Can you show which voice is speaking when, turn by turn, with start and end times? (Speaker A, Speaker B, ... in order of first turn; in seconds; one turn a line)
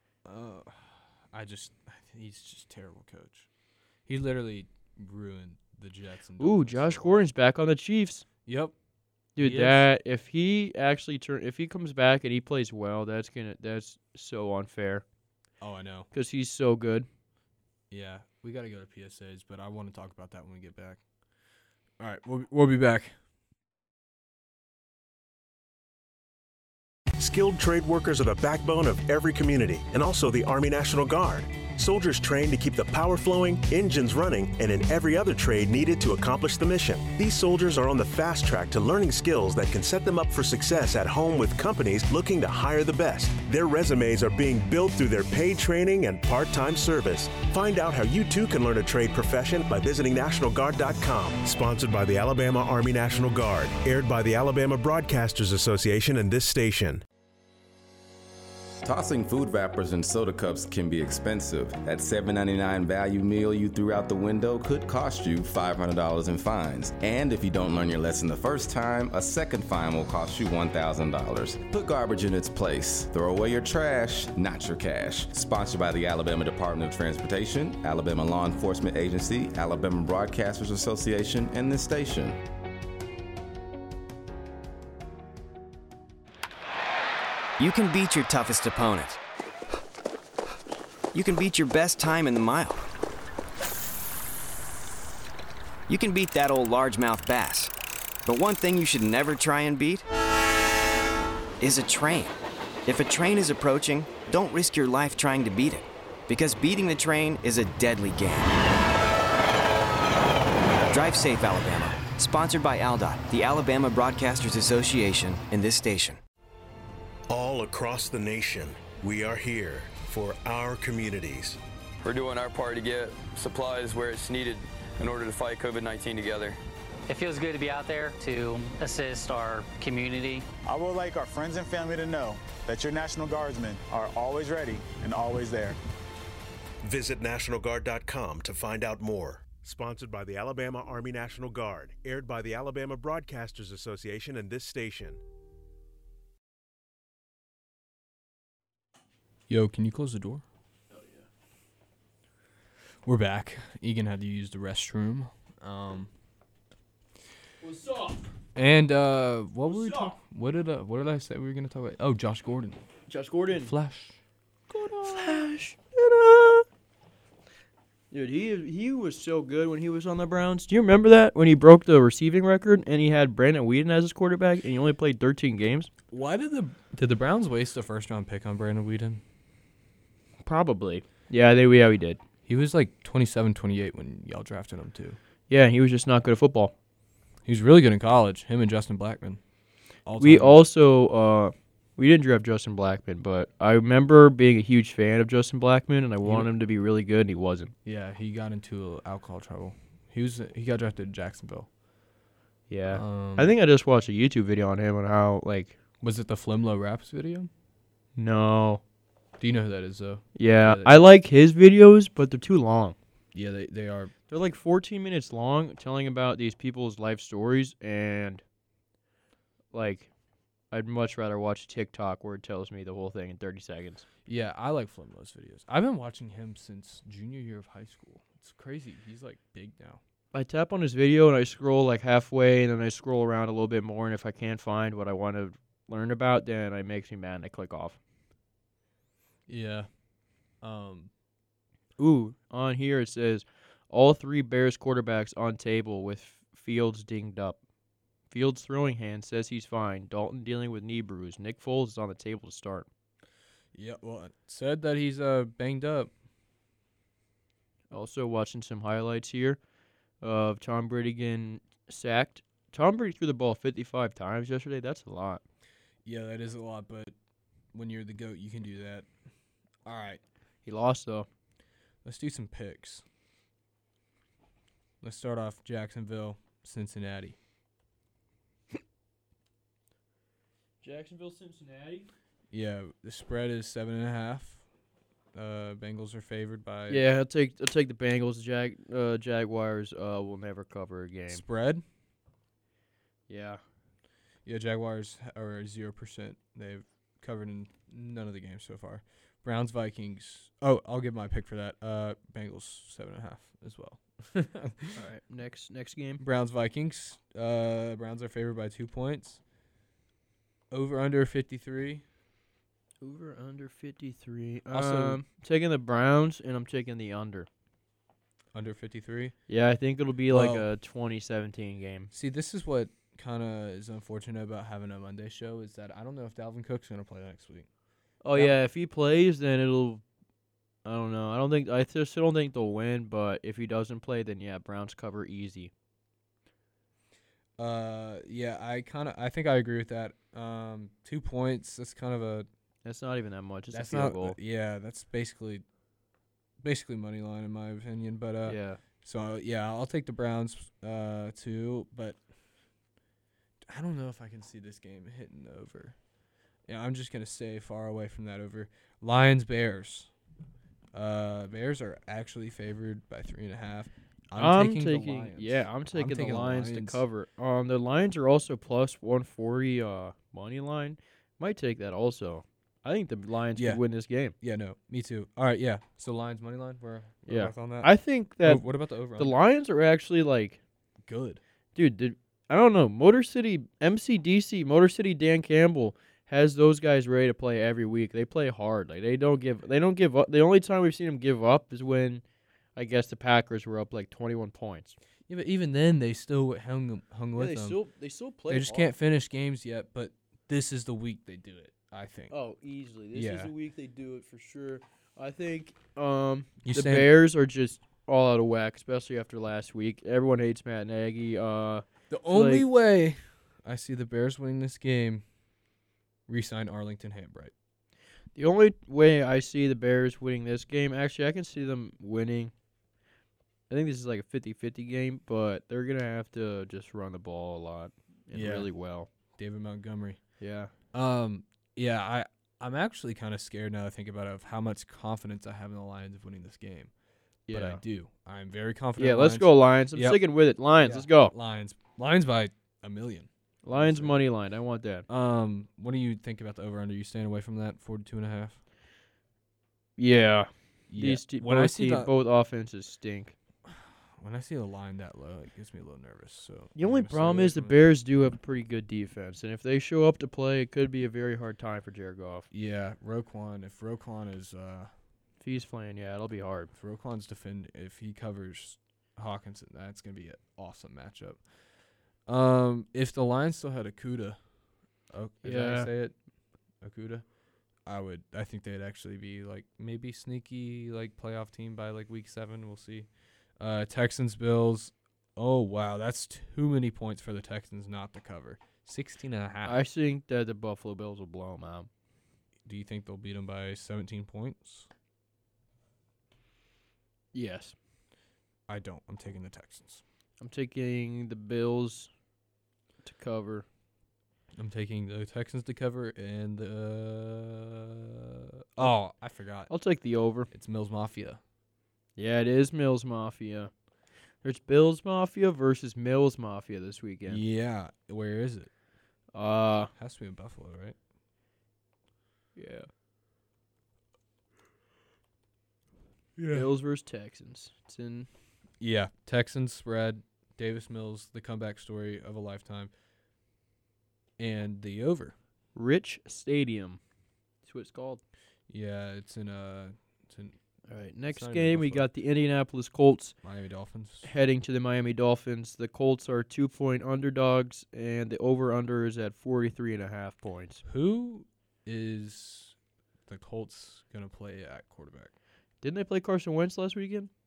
Speaker A: 0.2-3.5
Speaker A: 4.1-7.2
Speaker B: 6.4-8.3
Speaker A: 8.5-8.7
Speaker B: 9.4-15.0
Speaker A: 9.4-9.8
Speaker A: 15.6-16.1
Speaker B: 16.1-17.1
Speaker A: 17.9-21.0
Speaker A: 22.0-23.2
Speaker C: 27.2-57.0
Speaker D: 58.8-82.4
Speaker E: 87.6-89.2
Speaker E: 91.1-92.8
Speaker E: 95.9-97.7
Speaker E: 98.3-100.1
Speaker E: 101.6-108.5
Speaker E: 110.9-116.2
Speaker C: 117.3-121.6
Speaker F: 122.0-126.6
Speaker G: 127.1-130.5
Speaker H: 130.7-135.8
Speaker C: 136.8-145.2
Speaker A: 149.5-150.4
Speaker B: 150.9-151.3
Speaker A: 153.0-156.1
Speaker B: 157.6-158.3
Speaker A: 158.6-162.8
Speaker B: 159.7-160.2
Speaker B: 163.1-163.7
Speaker A: 163.5-164.2
Speaker B: 164.7-166.7
Speaker A: 164.9-165.5
Speaker B: 168.1-175.9
Speaker A: 176.1-179.2
Speaker B: 180.4-182.2
Speaker A: 182.5-185.2
Speaker B: 185.5-186.7
Speaker A: 187.4-189.4
Speaker A: 190.1-190.6
Speaker B: 190.2-197.7
Speaker A: 196.2-196.5
Speaker A: 197.8-201.7
Speaker B: 202.7-205.8
Speaker A: 202.9-203.5
Speaker A: 206.0-207.5
Speaker B: 208.2-208.8
Speaker A: 209.4-211.0
Speaker B: 210.4-213.0
Speaker A: 213.3-214.1
Speaker B: 214.3-218.4
Speaker B: 219.7-220.1
Speaker B: 220.7-224.1
Speaker A: 224.3-230.0
Speaker B: 230.3-238.0
Speaker A: 239.5-239.9
Speaker A: 240.6-241.1
Speaker B: 242.0-247.6
Speaker B: 248.3-252.9
Speaker A: 253.7-256.1
Speaker B: 257.9-259.6
Speaker B: 260.2-265.4
Speaker A: 266.1-267.1
Speaker A: 267.7-269.1
Speaker A: 269.9-270.2
Speaker B: 270.6-271.3
Speaker A: 272.0-273.1
Speaker A: 275.0-277.4
Speaker B: 280.8-282.1
Speaker A: 282.5-284.6
Speaker A: 285.3-287.1
Speaker B: 286.9-291.4
Speaker A: 291.3-291.8
Speaker B: 293.3-293.6
Speaker A: 294.4-305.0
Speaker B: 304.9-306.2
Speaker A: 306.2-309.4
Speaker A: 310.7-312.0
Speaker B: 313.0-317.5
Speaker A: 314.7-315.2
Speaker A: 318.5-319.4
Speaker B: 319.5-322.1
Speaker A: 320.3-320.7
Speaker A: 322.1-327.7
Speaker B: 328.2-330.0
Speaker B: 330.9-335.7
Speaker A: 337.6-342.5
Speaker B: 342.9-344.4
Speaker A: 343.7-345.6
Speaker A: 346.6-352.2
Speaker B: 348.5-348.8
Speaker A: 353.7-356.0
Speaker A: 356.7-360.1
Speaker A: 360.9-367.0
Speaker B: 364.4-374.4
Speaker A: 373.6-373.8
Speaker A: 374.4-379.4
Speaker B: 377.3-378.6
Speaker B: 379.2-380.6
Speaker A: 381.0-381.4
Speaker B: 381.8-392.2
Speaker B: 392.8-395.0
Speaker A: 395.3-397.8
Speaker B: 397.4-398.9
Speaker A: 398.5-402.3
Speaker B: 402.3-412.7
Speaker A: 403.1-403.5
Speaker A: 406.6-407.1
Speaker A: 412.1-415.2
Speaker A: 416.3-417.5
Speaker B: 418.4-422.5
Speaker B: 423.7-429.1
Speaker A: 428.3-428.7
Speaker A: 429.4-430.2
Speaker B: 430.4-430.7
Speaker A: 430.9-436.9
Speaker B: 437.5-437.8
Speaker A: 437.5-440.2
Speaker B: 439.0-441.3
Speaker A: 440.8-444.2
Speaker B: 443.6-445.1
Speaker A: 445.1-448.6
Speaker B: 450.0-453.4
Speaker A: 450.9-452.1
Speaker A: 453.6-457.8
Speaker B: 456.8-462.5
Speaker A: 462.5-464.9
Speaker B: 465.4-466.7
Speaker A: 466.7-471.4
Speaker A: 472.3-474.4
Speaker A: 475.1-476.2
Speaker B: 475.4-475.9
Speaker A: 476.8-477.3
Speaker A: 477.8-483.1
Speaker A: 483.6-489.8
Speaker B: 489.6-491.9
Speaker A: 492.6-494.9
Speaker B: 497.3-497.8
Speaker A: 498.7-500.0
Speaker B: 500.4-502.1
Speaker B: 503.0-503.7
Speaker A: 504.6-509.7
Speaker B: 509.7-510.5
Speaker A: 510.5-511.4
Speaker B: 512.2-513.7
Speaker B: 514.4-517.4
Speaker A: 517.3-518.7
Speaker B: 519.3-519.9
Speaker A: 520.0-521.0
Speaker B: 522.6-522.9
Speaker A: 526.4-526.7
Speaker B: 526.5-528.3
Speaker A: 528.8-532.9
Speaker A: 534.4-535.4
Speaker B: 535.8-537.0
Speaker B: 537.6-538.2
Speaker A: 538.7-540.6
Speaker B: 540.9-543.4
Speaker A: 541.3-542.1
Speaker A: 543.4-544.3
Speaker B: 544.2-550.8
Speaker A: 550.9-552.8
Speaker A: 553.3-555.3
Speaker B: 555.8-557.3